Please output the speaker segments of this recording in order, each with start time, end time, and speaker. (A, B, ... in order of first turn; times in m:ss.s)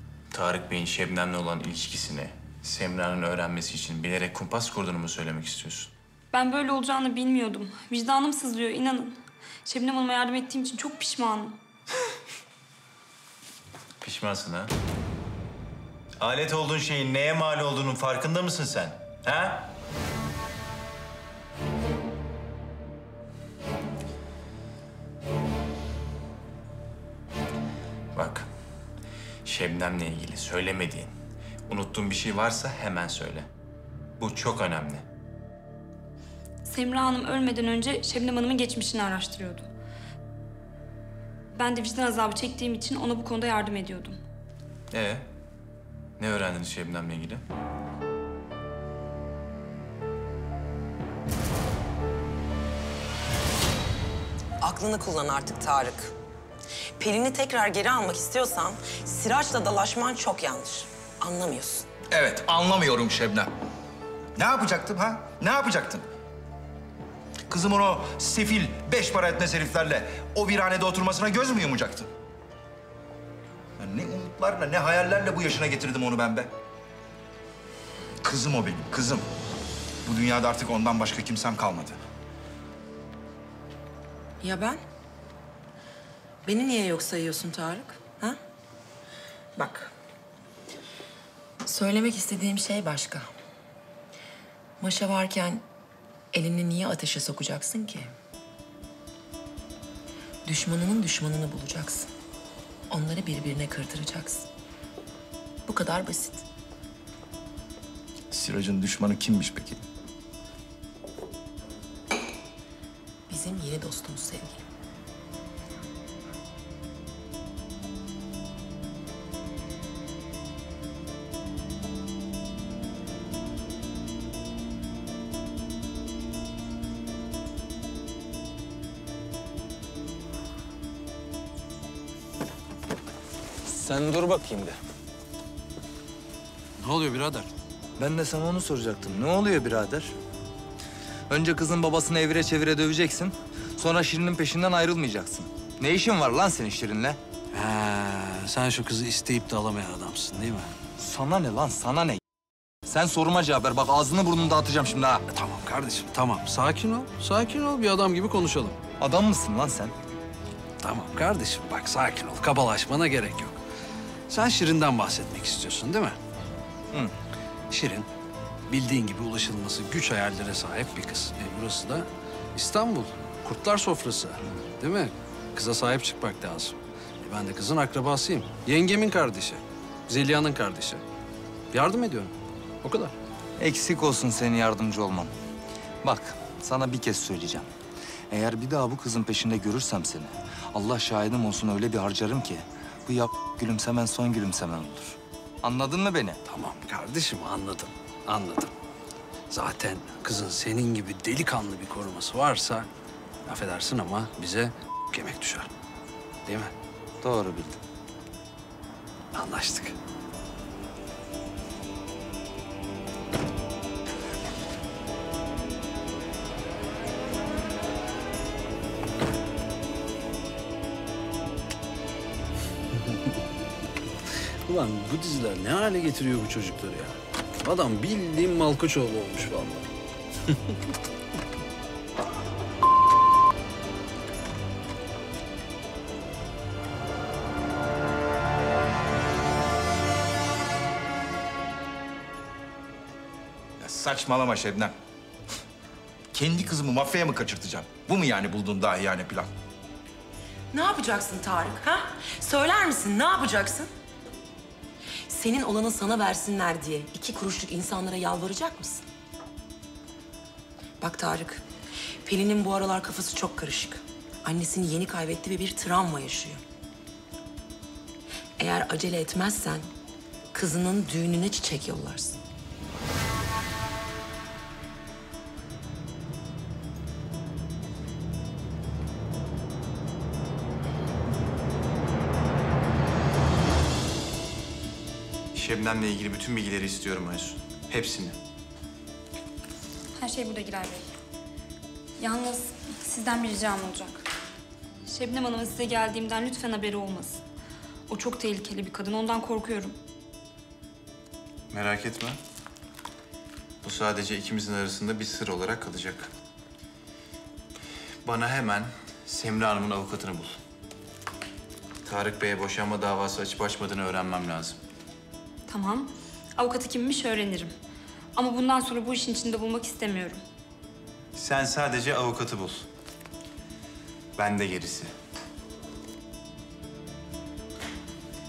0:00.3-0:05.9 A
0:06.3-0:11.6 B
0:14.0-0:14.7 A
0:16.2-0:19.7 A
0:28.1-0:28.5 A
0:29.4-0:31.1 A
0:31.7-0:33.5 A
0:34.2-0:35.0 A
0:36.6-0:39.7 B
0:41.5-0:44.2 B
0:44.9-0:45.2 A
0:46.2-0:47.4 A
0:54.6-0:56.1 C
0:57.0-1:01.9 C
1:02.1-1:03.5 D
1:04.4-1:06.0 D
1:07.5-1:12.1 D
1:13.8-1:16.5 D
1:18.2-1:19.2 D
1:20.0-1:22.0 D
1:24.4-1:24.8 C
1:26.4-1:28.4 C
1:29.6-1:29.9 C
1:31.6-1:33.3 C
1:34.8-1:35.6 C
1:36.3-1:38.1 C
1:40.4-1:42.1 C
1:42.9-1:44.5 C
1:45.7-1:46.4 C
1:48.3-1:49.8 D
1:53.3-1:54.6 C
2:13.7-2:14.7 E
2:16.8-2:17.5 F
2:18.0-2:20.1 E
2:21.3-2:27.2 E
2:27.5-2:30.7 F
2:31.0-2:32.2 E
2:32.8-2:35.2 E
2:35.3-2:38.8 F
2:39.0-2:39.9 E
2:40.8-2:43.6 F
2:44.3-2:46.2 F
2:47.7-2:48.1 F
2:48.7-3:01.0 F
3:01.7-3:03.1 F
3:03.6-3:05.3 E
3:06.0-3:07.7 E
3:08.3-3:16.4 E
3:16.4-3:18.7 F
3:19.5-3:22.9 F
3:23.4-3:25.7 F
3:26.4-3:26.7 F
3:27.2-3:27.8 E
3:29.3-3:29.9 F
3:43.0-3:43.3 F
3:44.6-3:49.9 F
3:50.5-3:50.8 F
4:03.8-4:04.9 D
4:06.3-4:09.5 D
4:10.7-4:13.9 C
4:15.3-4:19.0 C
4:21.0-4:21.6 C
4:22.2-4:26.6 C
4:28.6-4:29.9 C
4:30.5-4:32.4 C
4:45.5-4:48.4 A
4:50.1-4:51.1 B
4:52.2-4:54.2 B
4:55.1-4:57.4 B
4:58.1-5:00.0 B
5:01.7-5:02.4 A
5:03.8-5:06.3 A
5:08.2-5:10.6 A
5:12.0-5:14.8 A
5:15.7-5:17.7 B
5:18.3-5:20.4 B
5:21.3-5:22.9 A
5:24.4-5:25.1 A